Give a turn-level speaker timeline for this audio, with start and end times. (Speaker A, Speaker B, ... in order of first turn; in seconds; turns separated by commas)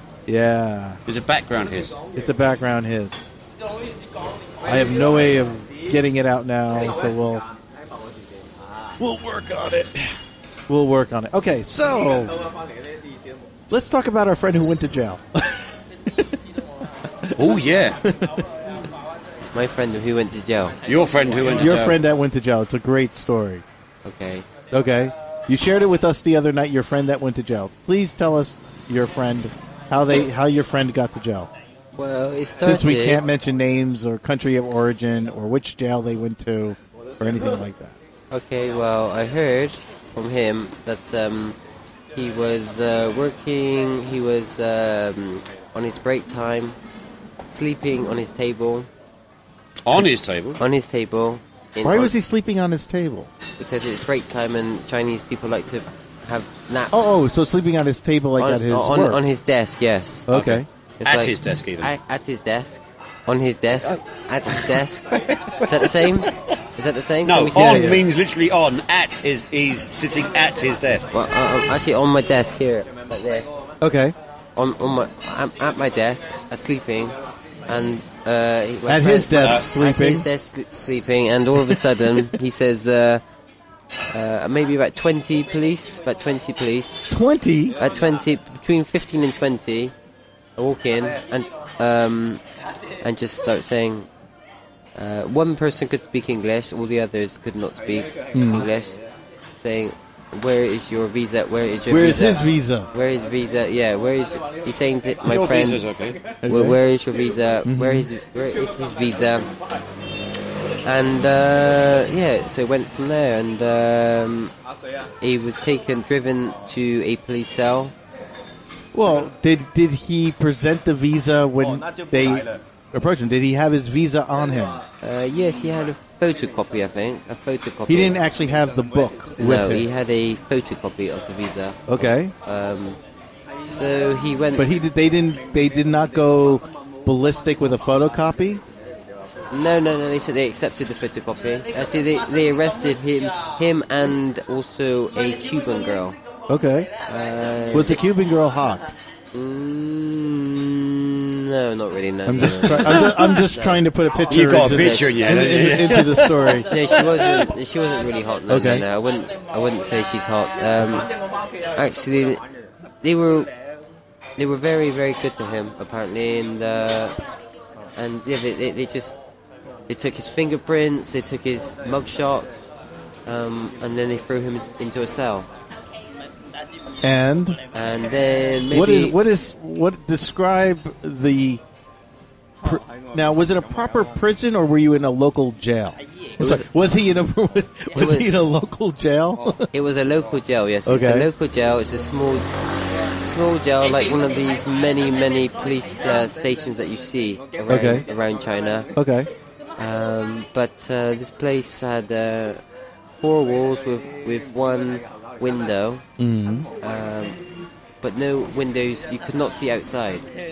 Speaker A: 0.3-1.0, Speaker B: 1.1-2.0, Speaker A: 2.1-3.2, Speaker A: 4.6-7.5, Speaker A: 9.0-10.1, Speaker A: 10.7-12.4, Speaker A: 13.7-16.4, Speaker A: 17.0-17.4, Speaker B: 17.4-18.0, Speaker A: 18.0-18.5, Speaker C: 19.5-20.8, Speaker B: 20.9-22.0, Speaker A: 21.5-23.6, Speaker C: 24.1-24.5, Speaker A: 24.7-31.5, Speaker C: 32.0-33.2, Speaker A: 32.6-38.0, Speaker C: 38.3-41.6, Speaker C: 42.1-46.8, Speaker C: 47.5-48.9, Speaker B: 49.9-50.6, Speaker C: 50.6-52.1, Speaker A: 51.8-53.3, Speaker C: 53.6-57.2, Speaker A: 56.9-59.2, Speaker C: 58.4-60.3, Speaker A: 60.3-60.7, Speaker B: 60.3-61.9, Speaker C: 61.0-68.0, Speaker B: 65.1-66.3, Speaker B: 67.2-71.1, Speaker A: 67.5-68.0, Speaker C: 71.1-73.6, Speaker A: 73.8-74.2, Speaker C: 74.6-77.1, Speaker C: 77.7-83.2, Speaker A: 78.9-80.3, Speaker C: 84.1-87.1, Speaker A: 87.1-87.8, Speaker C: 87.8-89.9, Speaker C: 90.6-92.4, Speaker C: 93.0-94.1, Speaker C: 95.0-99.0, Speaker A: 98.3-98.7, Speaker C: 99.6-105.8, Speaker A: 101.9-102.9, Speaker B: 105.2-106.2, Speaker A: 106.4-106.8, Speaker C: 106.5-109.5, Speaker A: 107.7-108.1, Speaker C: 110.8-114.5, Speaker C: 115.2-117.9, Speaker A: 118.9-124.8, Speaker C: 125.0-128.2, Speaker A: 127.9-129.9, Speaker C: 129.4-133.0, Speaker A: 131.9-132.3, Speaker C: 133.7-134.8, Speaker A: 134.6-138.6, Speaker C: 139.5-146.2, Speaker A: 146.5-146.9, Speaker C: 147.1-148.0, Speaker A: 147.7-148.9, Speaker C: 149.3-153.8, Speaker A: 152.3-156.7, Speaker B: 154.3-156.7, Speaker C: 154.7-155.1, Speaker C: 156.7-161.1, Speaker A: 158.5-158.8, Speaker C: 161.8-162.4, Speaker C: 163.0-163.5, Speaker C: 164.4-167.2, Speaker C: 168.0-169.2, Speaker C: 169.9-172.7, Speaker C: 173.3-175.5, Speaker A: 177.0-177.6, Speaker C: 177.7-179.2, Speaker A: 178.7-181.6, Speaker A: 182.6-189.7, Speaker C: 187.9-188.3, Speaker C: 189.7-192.5, Speaker A: 190.9-191.3, Speaker C: 193.2-198.9, Speaker A: 197.7-198.0, Speaker A: 198.9-199.3, Speaker C: 199.8-202.6, Speaker C: 203.2-206.0, Speaker A: 206.2-206.7, Speaker C: 206.8-207.4, Speaker C: 208.0-210.3